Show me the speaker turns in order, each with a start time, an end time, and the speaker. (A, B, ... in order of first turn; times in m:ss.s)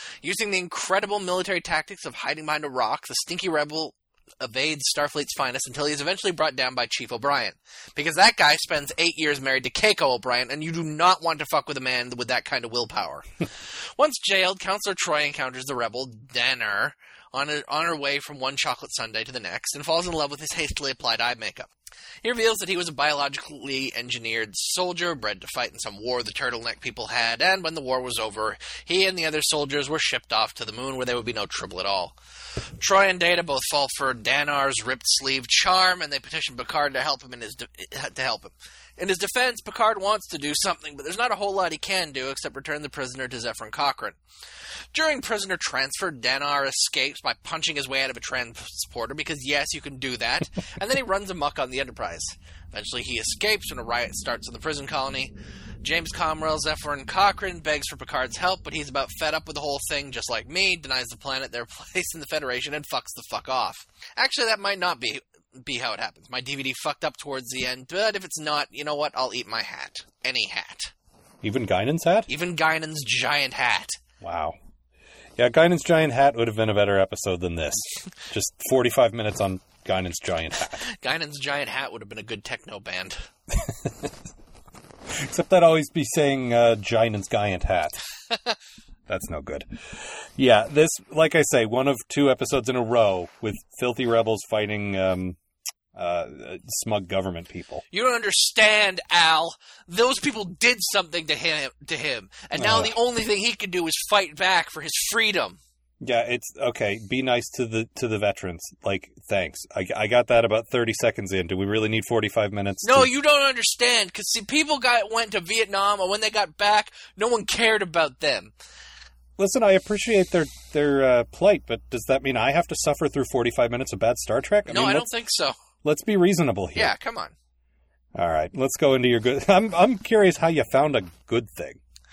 0:00.2-0:13.3 A
0:14.0-0:21.7 A
0:22.2-0:32.2 A
0:32.8-0:44.2 A
0:44.9-1:10.9 A
1:11.4-1:12.3 B
1:12.3-1:14.0 A
1:14.2-1:14.6 B
1:15.4-1:20.9 B
1:20.8-1:23.2 A
1:23.5-1:24.1 B
1:25.1-1:28.0 B
1:29.1-1:29.7 B
1:30.4-1:35.4 B
1:35.9-1:37.8 B
1:37.9-1:45.6 A
1:42.6-1:42.9 B
1:46.0-1:53.1 B
1:52.8-1:58.5 A
1:59.4-2:05.1 B
2:04.7-2:05.6 A
2:05.8-2:06.9 B
2:06.8-2:07.3 A
2:08.2-2:11.8 B